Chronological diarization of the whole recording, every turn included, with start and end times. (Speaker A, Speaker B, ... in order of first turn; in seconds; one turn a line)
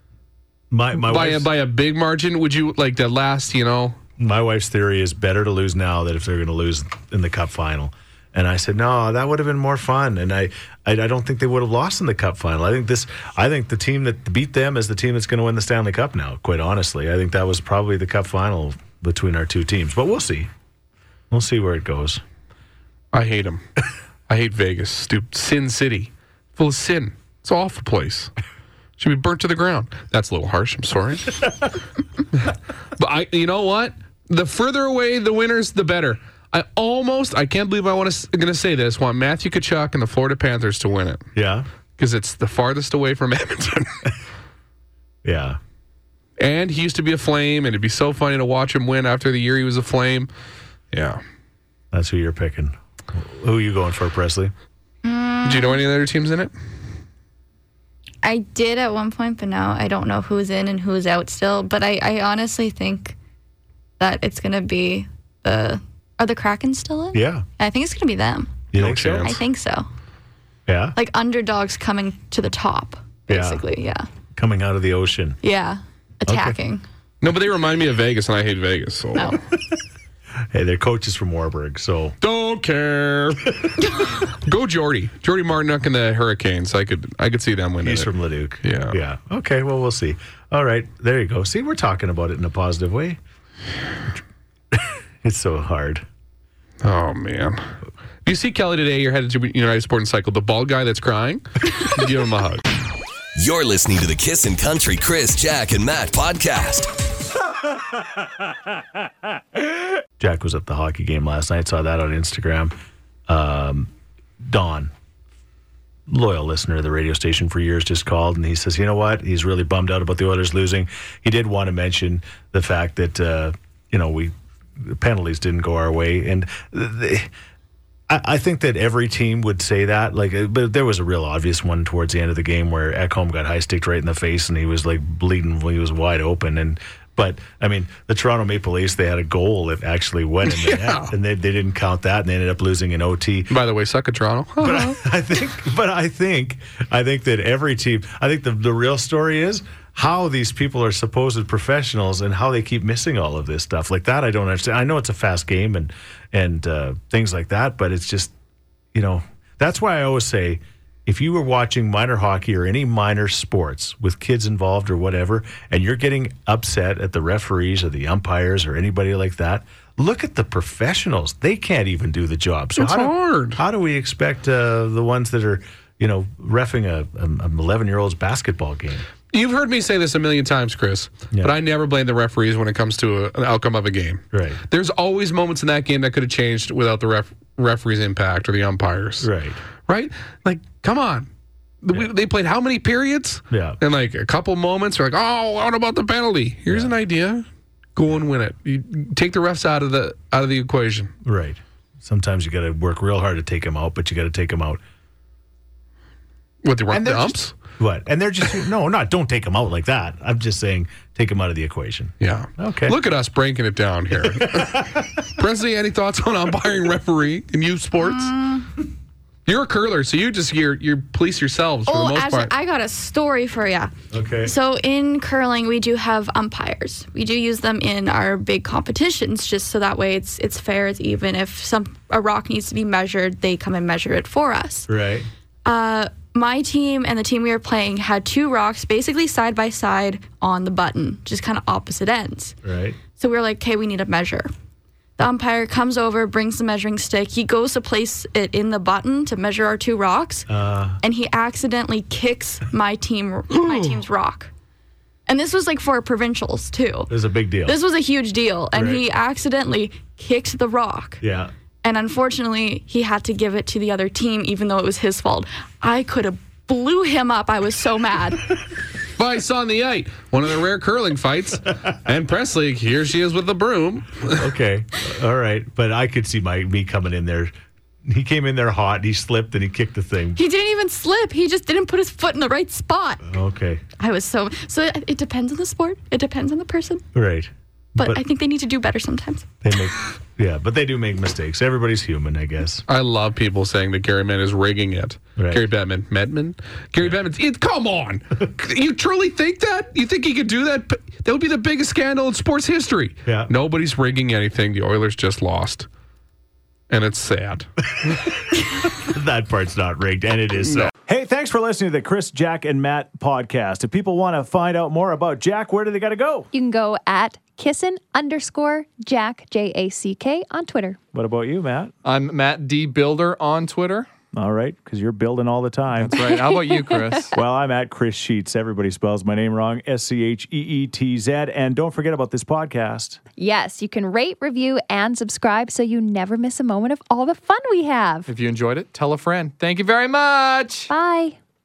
Speaker A: 0.7-1.5
Speaker B: 1.0-4.0
Speaker A: 4.2-20.5
Speaker A: 21.3-22.2
Speaker B: 23.1-23.6
Speaker B: 24.3-28.3
Speaker B: 29.0-31.5
Speaker B: 32.4-41.2
Speaker A: 41.4-41.7
Speaker B: 42.0-44.1
Speaker A: 45.2-45.6
Speaker B: 46.4-50.3
Speaker B: 50.9-51.2
Speaker A: 51.9-54.5
Speaker C: 55.0-55.8
Speaker B: 55.5-56.5
Speaker C: 58.2-63.2
Speaker C: 64.0-69.9
Speaker A: 67.1-67.5
Speaker A: 68.7-69.3
Speaker B: 68.8-69.4
Speaker A: 70.7-71.0
Speaker C: 71.0-74.0
Speaker A: 73.3-73.6
Speaker A: 74.4-75.4
Speaker C: 75.4-76.8
Speaker A: 76.3-76.6
Speaker B: 77.2-79.3
Speaker A: 80.5-82.2
Speaker B: 82.2-88.1
Speaker A: 87.8-93.2
Speaker B: 88.6-89.0
Speaker A: 94.7-96.0
Speaker B: 96.8-97.7
Speaker B: 98.2-102.6
Speaker D: 103.3-106.9
Speaker A: 110.2-112.7
Speaker A: 113.3-113.9
Speaker A: 114.4-114.9
Speaker A: 116.1-127.3
Speaker A: 128.1-143.5
Speaker B: 140.5-141.1
Speaker B: 143.5-145.1
Speaker A: 144.6-158.3
Speaker A: 158.9-179.1
Speaker B: 172.8-173.6
Speaker B: 179.3-189.3
Speaker A: 184.3-184.6
Speaker A: 189.2-189.6
Speaker B: 189.9-191.3
Speaker B: 191.8-197.4
Speaker A: 193.5-193.8
Speaker A: 196.7-196.9
Speaker B: 198.0-201.1
Speaker A: 201.2-204.8
Speaker B: 206.6-207.6
Speaker A: 206.9-213.0
Speaker B: 212.2-218.3
Speaker A: 214.1-215.1
Speaker C: 218.0-218.7
Speaker B: 219.5-222.5
Speaker C: 221.9-223.9
Speaker A: 224.1-224.5
Speaker C: 224.4-234.9
Speaker A: 234.9-235.3
Speaker C: 235.7-242.6
Speaker A: 242.6-243.0
Speaker C: 243.2-244.5
Speaker C: 245.2-250.5
Speaker A: 250.5-251.0
Speaker C: 251.0-254.5
Speaker B: 253.5-254.0
Speaker C: 255.3-257.1
Speaker A: 257.1-257.8
Speaker C: 257.6-261.2
Speaker A: 258.7-259.0
Speaker A: 261.2-261.5
Speaker C: 261.8-268.5
Speaker B: 269.2-274.4
Speaker A: 274.4-277.5
Speaker A: 278.1-280.4
Speaker C: 280.4-283.2
Speaker A: 283.3-283.8
Speaker C: 284.0-287.0
Speaker A: 287.1-288.2
Speaker C: 288.0-289.5
Speaker A: 289.6-292.9
Speaker B: 292.9-305.9
Speaker A: 295.4-295.6
Speaker A: 303.2-303.5
Speaker B: 306.9-307.7
Speaker A: 308.9-316.5
Speaker E: 316.5-321.0
Speaker A: 321.1-321.9
Speaker F: 322.1-324.1
Speaker A: 324.3-326.2
Speaker F: 326.0-327.3
Speaker E: 326.2-327.2
Speaker A: 327.3-333.2
Speaker E: 333.4-338.3
Speaker F: 338.3-340.9
Speaker E: 340.9-341.4